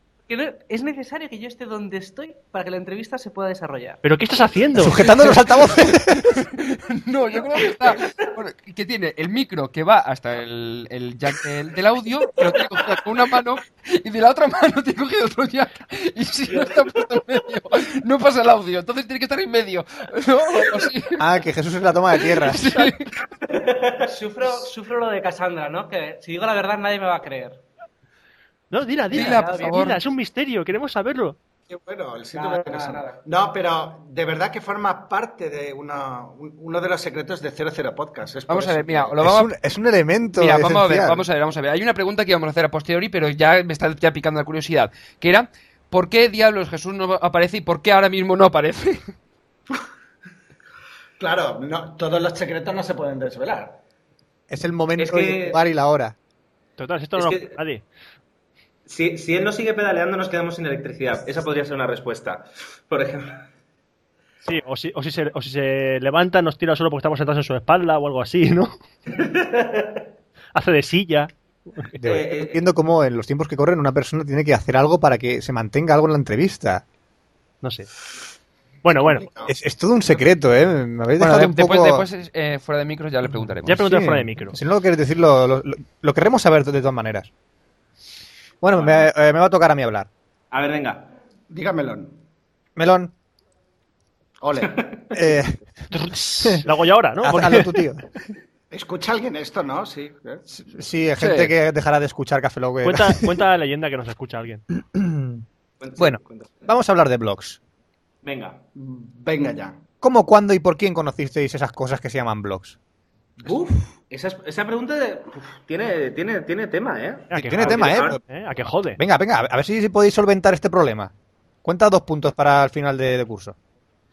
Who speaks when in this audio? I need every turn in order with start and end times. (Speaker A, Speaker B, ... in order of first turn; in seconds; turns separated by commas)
Speaker A: 0.3-4.0, Speaker B: 4.0-5.3, Speaker C: 4.8-6.3, Speaker D: 6.2-21.3, Speaker C: 21.2-22.7, Speaker D: 22.2-23.1, Speaker A: 23.6-27.6, Speaker B: 28.7-31.4, Speaker D: 29.1-30.0, Speaker A: 29.2-29.8, Speaker E: 31.7-39.2, Speaker A: 32.3-33.2, Speaker D: 38.5-39.5, Speaker C: 39.2-41.2, Speaker D: 40.4-49.1, Speaker E: 51.2-53.8, Speaker C: 54.5-56.1, Speaker F: 55.0-55.6, Speaker B: 56.8-57.8, Speaker F: 57.2-57.6, Speaker F: 58.9-63.5, Speaker B: 64.4-68.7, Speaker F: 69.1-70.0, Speaker B: 70.5-71.9, Speaker C: 72.0-76.8, Speaker F: 72.0-72.6, Speaker B: 77.6-77.9, Speaker B: 78.8-79.3, Speaker C: 79.5-82.0, Speaker D: 81.2-83.8, Speaker B: 83.7-84.5, Speaker C: 83.7-87.3, Speaker C: 88.6-90.1, Speaker F: 88.7-89.1, Speaker F: 90.5-91.1, Speaker E: 91.5-92.1, Speaker C: 92.8-93.1, Speaker E: 94.4-94.9, Speaker F: 94.6-95.0, Speaker C: 95.1-95.6, Speaker B: 95.9-97.8, Speaker C: 97.2-98.2, Speaker E: 98.7-100.4, Speaker C: 100.5-103.4, Speaker D: 101.2-101.5, Speaker B: 102.8-104.6, Speaker C: 104.7-105.4, Speaker F: 105.8-106.7, Speaker C: 106.0-107.6, Speaker F: 108.2-108.6, Speaker E: 108.7-109.8, Speaker C: 110.0-112.8, Speaker F: 113.4-118.2, Speaker B: 117.3-119.0, Speaker C: 117.3-118.2, Speaker C: 119.0-121.1, Speaker C: 121.6-123.5